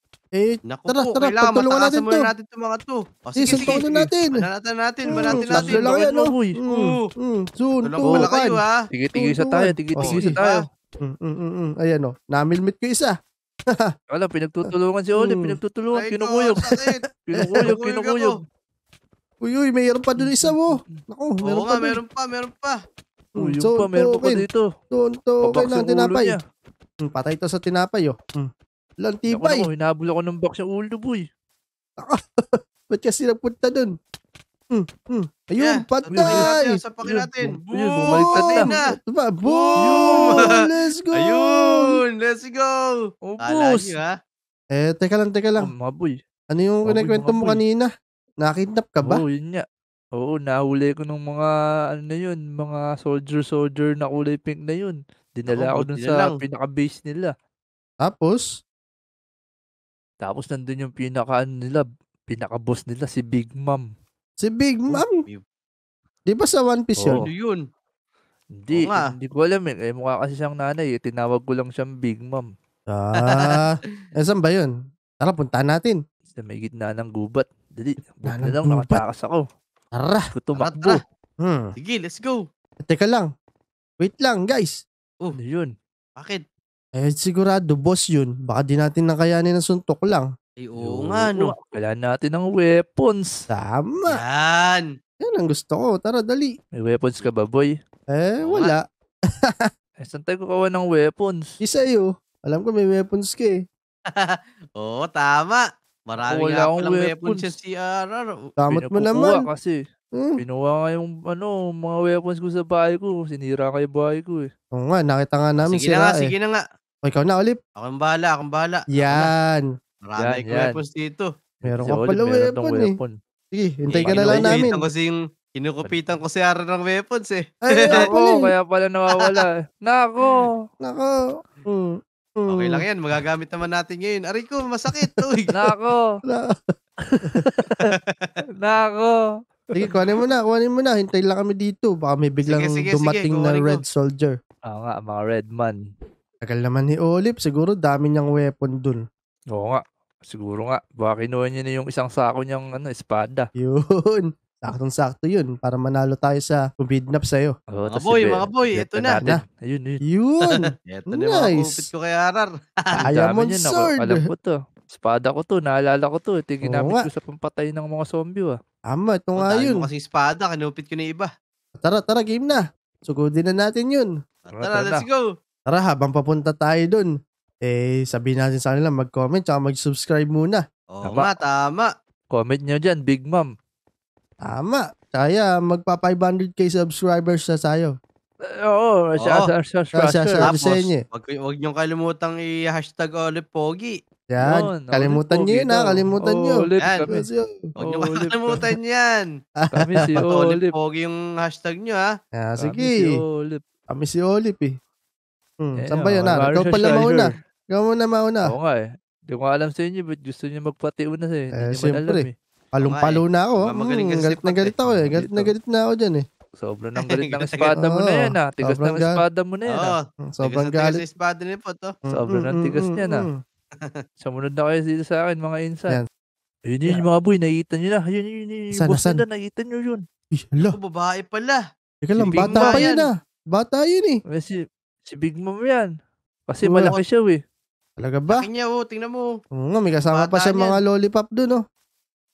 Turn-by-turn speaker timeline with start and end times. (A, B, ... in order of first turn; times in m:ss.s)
0:00.4-0:02.2 A
0:00.7-0:05.9 B
0:03.4-0:04.4 A
0:03.5-0:03.8 C
0:05.1-0:06.6 C
0:05.1-0:08.6 A
0:06.7-0:07.0 B
0:07.8-0:08.7 B
0:08.0-0:08.3 C
0:08.9-0:10.7 C
0:09.1-0:10.3 A
0:10.0-0:10.6 B
0:11.0-0:13.2 A
0:14.1-0:18.4 C
0:15.1-0:15.6 A
0:15.9-0:17.0 B
0:17.6-0:18.3 B
0:19.4-0:22.0 A
0:20.2-0:21.0 C
0:21.4-0:22.8 B
0:23.4-0:26.4 A
0:23.4-0:24.6 C
0:25.4-0:26.4 C
0:27.0-0:28.5 A
0:29.0-0:29.7 A
0:29.3-0:31.2 C
0:32.0-0:33.9 A
0:34.7-0:36.8 A
0:35.6-0:38.9 B
0:36.1-0:36.5 C
0:37.0-0:38.7 C
0:38.1-0:41.9 A
0:39.4-0:40.6 B
0:39.8-0:40.5 C
0:41.2-0:42.9 B
0:43.3-0:43.9 C
0:43.4-0:44.1 B
0:44.7-0:45.7 A
0:45.6-0:46.1 C
0:46.5-0:47.9 A
0:46.8-0:47.6 C
0:48.4-0:49.2 A
0:49.0-0:49.6 C
0:50.2-0:57.3 C
0:55.5-0:56.4 B
0:58.0-0:58.4 A
1:00.2-1:03.8 C
1:04.4-1:05.2 A
1:05.0-1:05.4 B
1:06.3-1:07.2 A
1:07.1-1:07.6 B
1:08.6-1:12.5 C
1:08.7-1:09.1 B
1:12.9-1:16.0 A
1:16.3-1:19.4 C
1:18.2-1:19.0 A
1:19.9-1:20.2 A
1:20.3-1:21.0 C
1:20.6-1:21.0 B
1:21.4-1:21.7 A
1:21.8-1:22.4 B
1:22.8-1:23.3 A
1:24.0-1:24.8 A
1:25.3-1:25.7 C
1:26.2-1:26.4 B
1:27.0-1:30.3 A
1:30.6-1:31.5 B
1:30.8-1:33.3 C
1:33.5-1:34.2 A
1:34.1-1:34.8 B
1:35.2-1:36.5 A
1:36.8-1:37.7 C
1:38.1-1:38.8 A
1:38.4-1:38.7 B
1:39.4-1:39.7 A
1:40.0-1:41.4 C
1:41.6-1:43.5 A
1:44.1-1:48.3 B
1:46.2-1:47.5 C
1:48.6-1:49.4 A
1:48.7-1:49.7 C
1:50.4-1:54.5 C
1:54.7-1:56.3 A
1:55.7-1:56.6 B
1:57.0-1:57.6 A
1:57.8-1:59.3 B
1:58.9-1:59.6 A
2:00.0-2:01.3 B
2:00.2-2:00.8 C
2:01.6-2:03.1 C
2:01.6-2:02.9 A
2:03.5-2:04.9 A
2:03.9-2:08.0 B
2:04.0-2:04.6 C
2:05.8-2:06.2 C
2:07.7-2:08.5 A
2:07.9-2:10.6 C
2:10.8-2:12.8 A
2:12.5-2:15.5 B
2:15.5-2:16.0 C
2:16.3-2:16.5 A
2:17.0-2:18.0 C
2:18.6-2:19.2 C
2:19.8-2:24.4 A
2:22.4-2:23.8 B
2:24.7-2:25.8 C
2:26.4-2:29.0 A
2:29.5-2:33.5 C
2:33.6-2:37.6 A
2:37.7-2:40.0 C
2:37.9-2:39.2 B
2:40.1-2:41.9 A
2:40.9-2:43.0 B
2:43.0-2:48.6 C
2:43.0-2:44.2 A
2:46.6-2:47.0 A
2:48.9-2:49.9 A
2:49.4-2:51.3 B
2:51.8-2:54.1 A
2:54.5-2:55.2 B
2:54.5-2:55.0 C
2:55.7-2:57.1 A
2:57.6-3:00.6 A
3:00.9-3:01.9 B
3:01.0-3:01.3 C
3:02.3-3:03.5 C
3:04.4-3:07.9 A
3:08.6-3:10.5 C
3:09.2-3:09.5 B
3:10.0-3:11.0 A
3:10.4-3:14.0 B
3:14.3-3:17.6 A
3:14.4-3:17.2 C
3:16.8-3:17.1 B
3:17.8-3:19.2 B
3:17.8-3:18.6 C
3:19.6-3:20.2 A
3:19.7-3:20.7 C
3:20.2-3:22.1 B
3:22.4-3:23.1 A
3:22.6-3:23.6 C
3:23.9-3:24.7 A
3:25.6-3:28.5 A
3:25.8-3:27.3 C
3:28.5-3:32.3 C
3:31.6-3:36.2 A
3:32.8-3:34.7 B
3:34.8-3:35.5 C
3:36.6-3:39.9 C
3:37.0-3:37.7 B
3:37.8-3:39.2 A
3:39.7-3:41.9 B
3:40.2-3:41.0 A
3:42.1-3:43.3 C
3:42.1-3:43.4 A
3:44.2-3:46.0 C
3:46.7-3:50.0 C
3:48.8-3:49.2 A
3:50.4-3:50.8 A
3:50.7-3:51.6 B
3:52.0-3:54.2 A
3:52.2-3:52.9 C
3:52.3-3:53.1 B
3:54.3-3:55.9 C
3:56.5-3:57.4 C
3:56.6-3:56.9 A
3:58.0-3:58.4 A
3:58.3-3:59.3 B
3:59.6-4:01.6 A
4:00.1-4:00.8 B